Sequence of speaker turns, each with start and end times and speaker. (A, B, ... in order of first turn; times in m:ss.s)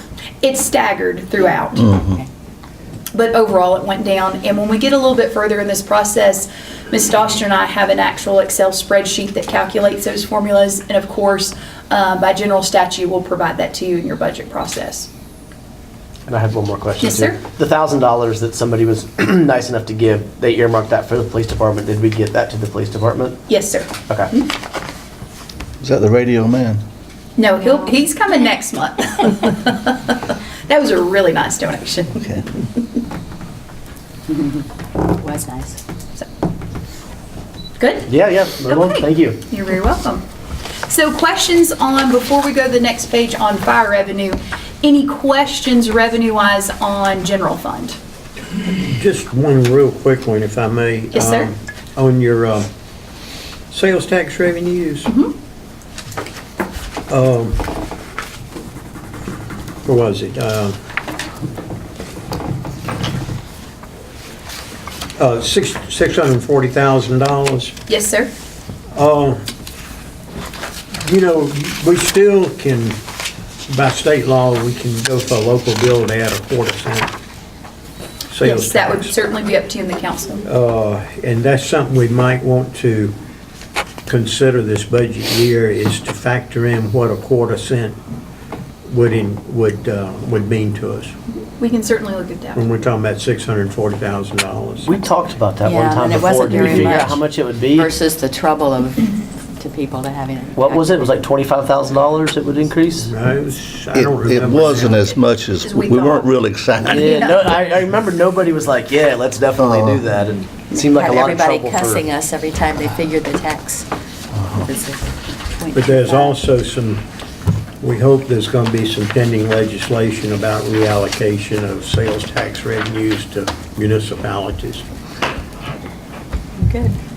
0:00.4-0:01.9 A
0:01.7-0:02.3 B
0:03.1-0:15.1 A
0:16.3-0:23.4 C
0:17.0-0:17.4 A
0:23.5-0:24.5 A
0:25.8-0:26.8 D
0:27.4-0:32.4 A
0:34.3-0:34.6 B
0:35.2-0:35.8 B
0:37.8-0:38.1 A
0:38.1-0:39.4 C
0:38.7-0:40.2 A
0:40.9-0:48.0 A
0:48.8-0:52.7 E
0:51.1-0:51.5 A
0:53.7-0:55.1 E
0:55.1-0:55.3 A
0:57.1-0:57.6 E
0:59.8-1:00.8 E
1:05.2-1:07.7 E
1:07.9-1:08.3 A
1:08.9-1:09.4 E
1:11.0-1:13.0 E
1:13.7-1:17.1 E
1:18.3-1:19.1 E
1:18.4-1:20.5 A
1:20.4-1:23.1 E
1:24.1-1:28.0 E
1:28.9-1:31.1 E
1:31.6-1:32.6 A
1:32.5-1:34.9 E
1:34.8-1:37.9 C
1:35.6-1:41.2 B
1:40.6-1:43.1 C
1:43.0-1:45.0 E
1:43.9-1:47.0 D
1:45.6-1:47.6 A
1:46.9-1:52.0 C
1:49.6-1:50.0 D
1:50.7-1:56.3 B
1:55.7-1:57.0 E
1:57.8-2:04.8 E